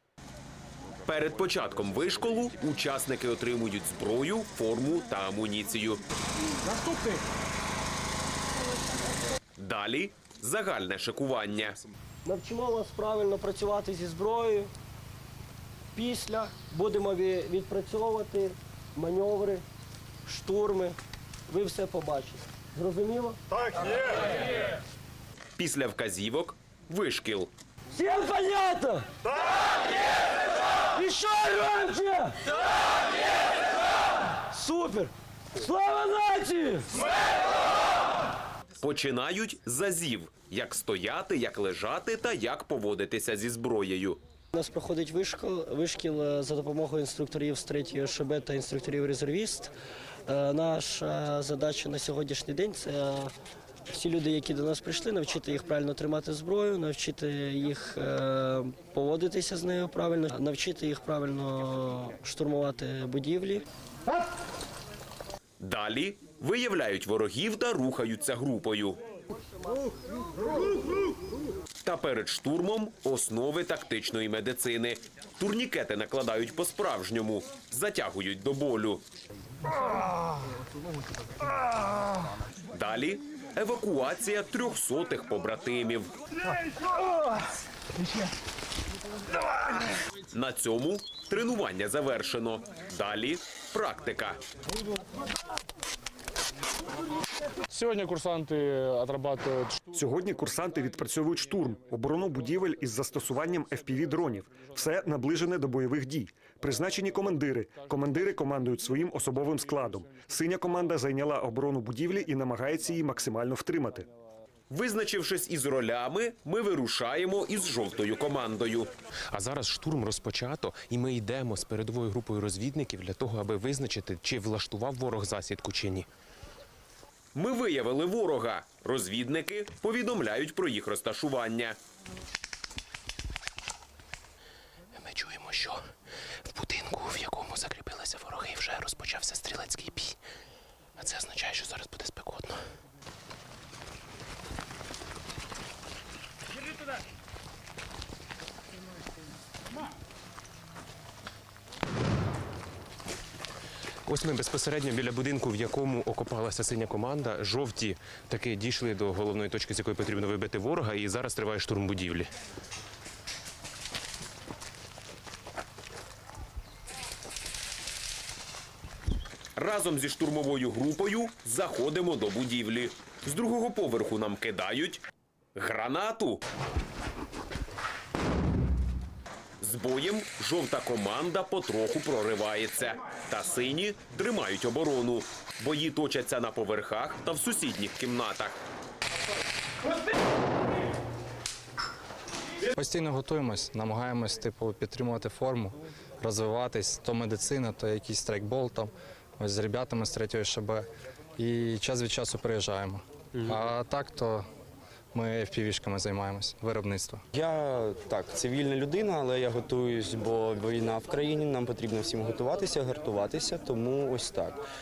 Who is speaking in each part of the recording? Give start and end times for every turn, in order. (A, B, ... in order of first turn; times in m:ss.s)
0:01.0-0:06.0 A
0:09.6-0:11.8 A
0:12.2-0:14.7 B
0:15.9-0:19.6 B
0:20.2-0:21.0 B
0:21.5-0:23.4 B
0:25.6-0:27.5 A
0:27.9-0:29.1 B
0:30.9-0:32.5 B
0:34.4-0:36.9 B
0:38.8-0:44.2 A
0:44.5-0:49.7 B
0:50.3-0:53.3 B
0:53.9-1:03.6 B
1:05.6-1:09.0 A
1:11.8-1:19.0 A
1:22.7-1:26.1 A
1:30.3-1:34.4 A
1:37.7-1:39.8 C
1:39.9-1:54.1 D
1:54.7-1:58.9 A
1:59.3-2:06.1 E
2:07.3-2:11.8 A
2:15.0-2:15.8 E
2:16.4-2:20.2 E
2:21.0-2:22.6 E
2:34.0-2:42.3 E
2:49.6-2:55.0 A
2:55.6-2:56.4 A
2:59.6-3:08.6 A
3:12.7-3:24.4 F
3:25.1-3:27.2 F
3:27.3-3:34.6 G